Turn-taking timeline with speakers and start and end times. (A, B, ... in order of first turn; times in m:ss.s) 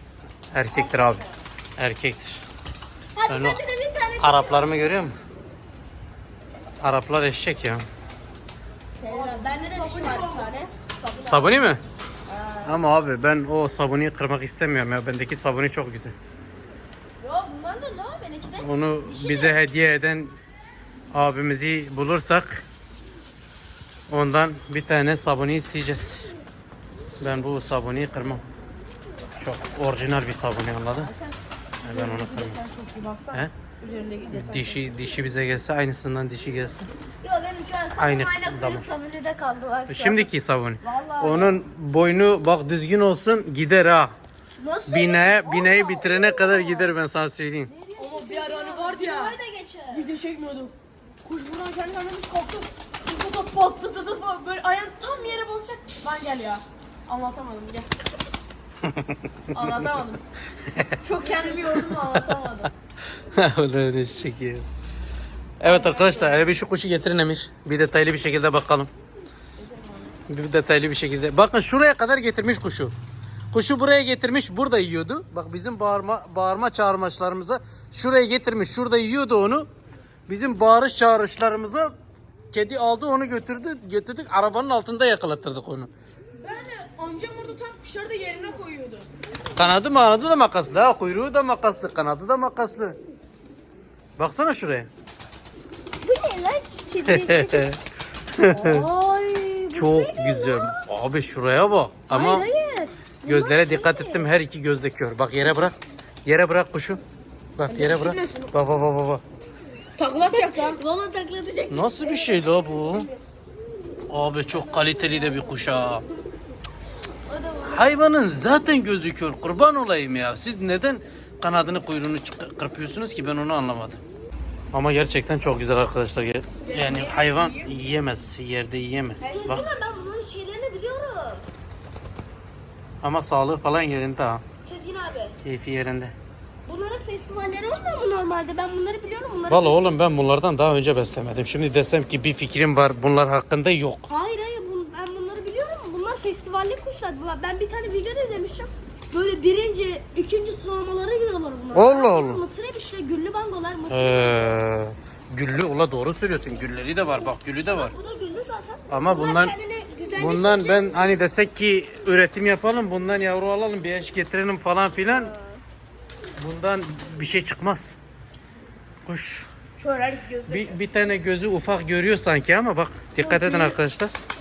0:00.5-0:01.2 A
0:00.7-0:01.2 B
0:01.8-0:02.4 A
0:03.1-0:04.9 B
0:03.3-0:03.6 A
0:04.2-0:05.1 A
0:06.8-0:07.8 A
0:09.0-0:10.6 C
0:09.0-0:11.7 B
0:11.2-0:11.8 A
0:12.3-0:12.8 B
0:12.6-0:16.2 A
0:17.2-0:19.5 B
0:18.6-0:20.3 A
0:21.1-0:22.6 A
0:24.1-0:26.3 A
0:27.2-0:28.4 A
0:29.4-0:31.1 A
0:31.0-0:31.3 C
0:31.8-0:32.6 A
0:31.8-0:34.8 C
0:34.3-0:36.9 A
0:37.2-0:40.3 B
0:38.0-0:38.9 A
0:39.9-0:44.1 A
0:40.9-0:41.6 B
0:41.0-0:41.4 C
0:44.6-0:46.9 B
0:44.9-0:47.7 A
0:47.7-0:50.1 B
0:48.0-0:49.4 C
0:49.9-0:50.7 C
0:51.2-0:57.9 C
0:58.8-0:59.5 A
0:59.5-1:00.2 C
1:01.0-1:02.7 C
1:01.7-1:02.3 A
1:03.3-1:04.6 A
1:05.6-1:08.9 A
1:05.6-1:06.5 C
1:09.6-1:10.2 C
1:10.3-1:12.9 A
1:13.5-1:19.7 A
1:20.3-1:21.9 A
1:22.5-1:25.9 A
1:26.4-1:29.0 C
1:29.6-1:33.0 A
1:34.2-1:34.9 A
1:36.0-1:37.7 B
1:37.0-1:37.8 A
1:38.3-1:38.8 A
1:38.5-1:40.8 B
1:39.7-1:42.5 A
1:42.1-1:44.2 B
1:43.2-1:47.0 A
1:47.6-1:49.2 A
1:47.7-1:48.5 C
1:47.7-1:48.2 B
1:50.0-1:50.8 C
1:50.2-1:53.2 B
1:51.7-1:53.1 A
1:54.1-1:56.0 A
1:54.8-1:55.6 B
1:57.3-1:58.0 B
1:57.6-2:04.0 A
2:04.7-2:09.7 A
2:06.6-2:07.8 C
2:09.2-2:11.4 B
2:09.2-2:09.7 C
2:13.0-2:14.4 A
2:14.6-2:15.4 B
2:15.4-2:16.1 A
2:16.6-2:20.0 B
2:19.5-2:24.1 A
2:24.1-2:34.6 B
2:31.7-2:32.4 A
2:33.9-2:37.9 A
2:37.1-2:41.1 B
2:38.9-2:39.6 A
2:40.2-2:45.4 A
2:46.4-2:48.0 A
2:49.0-2:49.5 A
2:49.8-2:50.8 C
2:50.5-2:54.1 A
2:53.2-2:53.8 C